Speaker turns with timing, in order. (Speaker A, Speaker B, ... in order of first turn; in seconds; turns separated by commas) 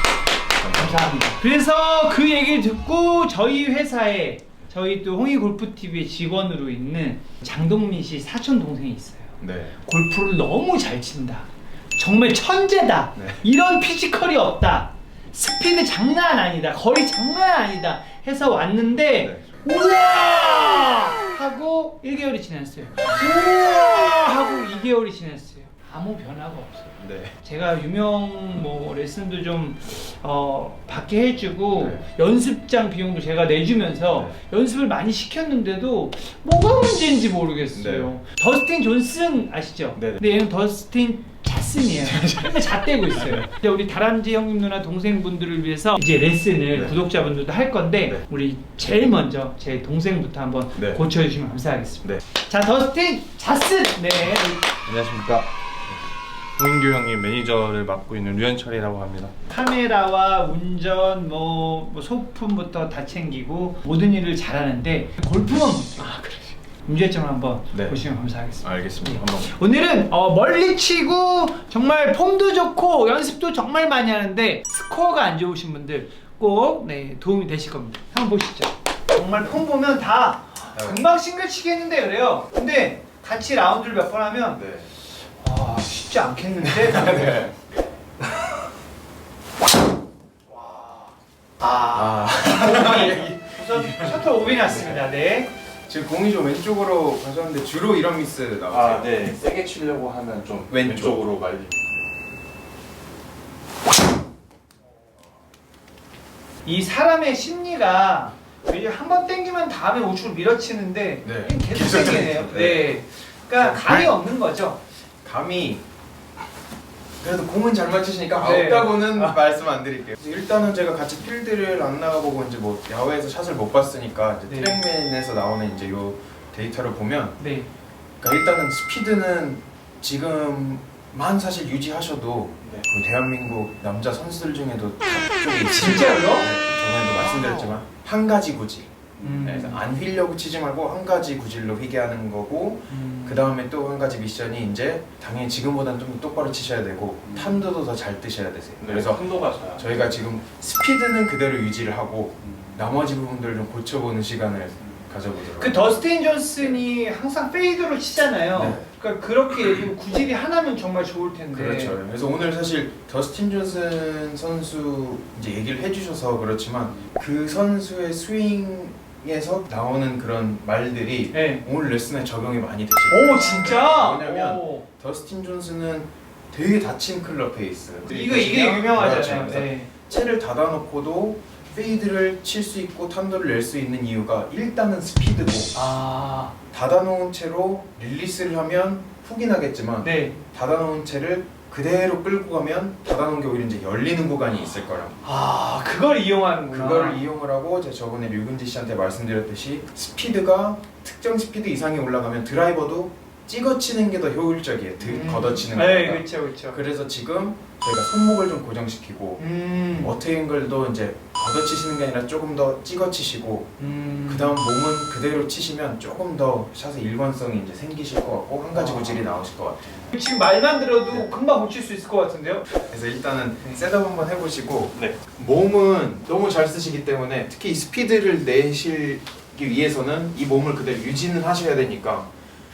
Speaker A: 0.6-1.1, Speaker B: 0.7-54.6, Speaker A: 9.4-9.8, Speaker A: 13.2-13.4, Speaker A: 19.2-19.4, Speaker A: 27.0-27.4, Speaker A: 31.8-32.0, Speaker A: 34.1-34.4, Speaker A: 37.7-38.1, Speaker A: 40.0-40.2, Speaker A: 41.9-43.5, Speaker A: 46.7-47.0, Speaker A: 50.8-51.0, Speaker C: 54.9-55.5, Speaker A: 54.9-55.3, Speaker C: 56.6-59.3, Speaker B: 59.5-84.6, Speaker A: 66.0-66.4, Speaker A: 67.7-68.0, Speaker A: 68.6-69.5, Speaker A: 80.7-81.0, Speaker A: 84.5-84.9, Speaker B: 85.4-87.5, Speaker A: 86.6-87.5, Speaker B: 90.5-95.5, Speaker A: 91.9-95.1, Speaker A: 95.8-99.1, Speaker C: 98.7-102.0, Speaker A: 100.7-101.2, Speaker B: 106.6-114.8, Speaker A: 111.2-113.0, Speaker A: 113.5-114.2, Speaker A: 115.2-115.8, Speaker A: 117.2-127.4, Speaker B: 118.4-119.4, Speaker B: 124.5-124.8, Speaker B: 127.4-127.7, Speaker A: 128.2-156.0, Speaker B: 135.7-136.5, Speaker B: 139.2-139.8, Speaker B: 142.9-143.5, Speaker C: 147.2-147.6, Speaker C: 148.8-150.0, Speaker C: 152.4-152.8, Speaker B: 155.5-162.0, Speaker A: 158.5-158.8, Speaker A: 161.5-185.8, Speaker B: 171.3-171.6, Speaker B: 173.1-174.8, Speaker B: 178.1-179.9, Speaker B: 185.7-186.5, Speaker A: 186.7-195.2, Speaker B: 190.0-190.3, Speaker B: 195.2-197.2, Speaker A: 196.7-209.4, Speaker B: 205.0-206.8, Speaker B: 209.4-210.1, Speaker A: 210.0-220.0, Speaker B: 213.8-214.6, Speaker B: 218.7-219.2, Speaker B: 220.1-222.7, Speaker A: 222.7-232.3